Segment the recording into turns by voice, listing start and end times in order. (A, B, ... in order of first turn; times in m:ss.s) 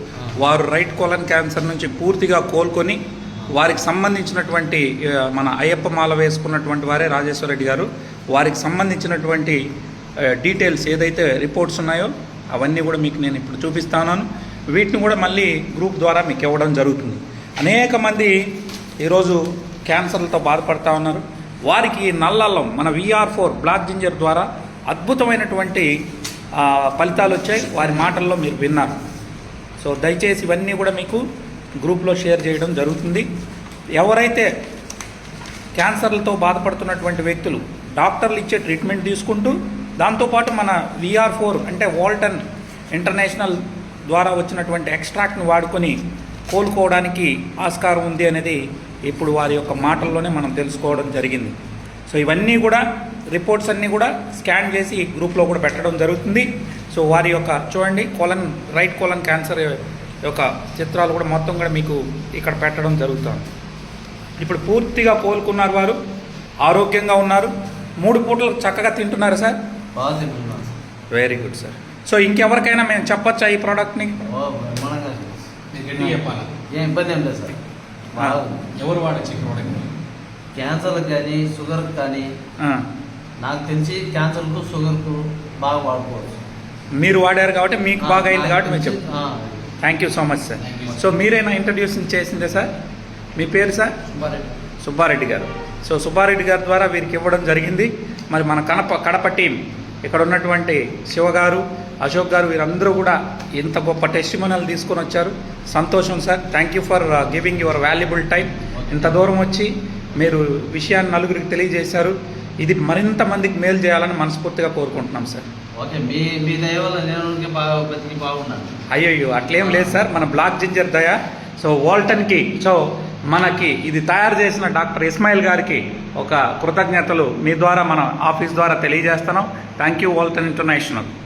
0:00.4-0:03.0 A
0:03.5-0:09.6 A
0:10.2-0:18.4 A
0:19.0-0:25.9 A
0:26.6-0:29.0 A
0:29.8-0:31.2 A
0:31.8-0:33.3 A
0:34.0-0:34.5 A
0:35.8-0:46.0 A
0:46.5-0:51.6 A
0:52.1-1:03.5 A
1:04.4-1:06.0 A
1:06.6-1:09.6 A
1:10.0-1:10.8 B
1:11.1-1:14.1 A
1:14.3-1:17.6 B
1:15.7-1:16.6 C
1:18.1-1:18.7 B
1:18.8-1:20.0 C
1:20.6-1:22.3 B
1:23.4-1:26.4 B
1:27.0-1:29.0 A
1:28.0-1:29.8 B
1:29.8-1:32.7 A
1:30.6-1:31.0 C
1:33.4-1:34.0 A
1:34.1-1:34.5 B
1:34.8-1:55.4 A
1:48.7-1:49.2 B
1:55.8-1:58.8 B
1:58.9-2:11.1 A
1:59.6-2:00.1 B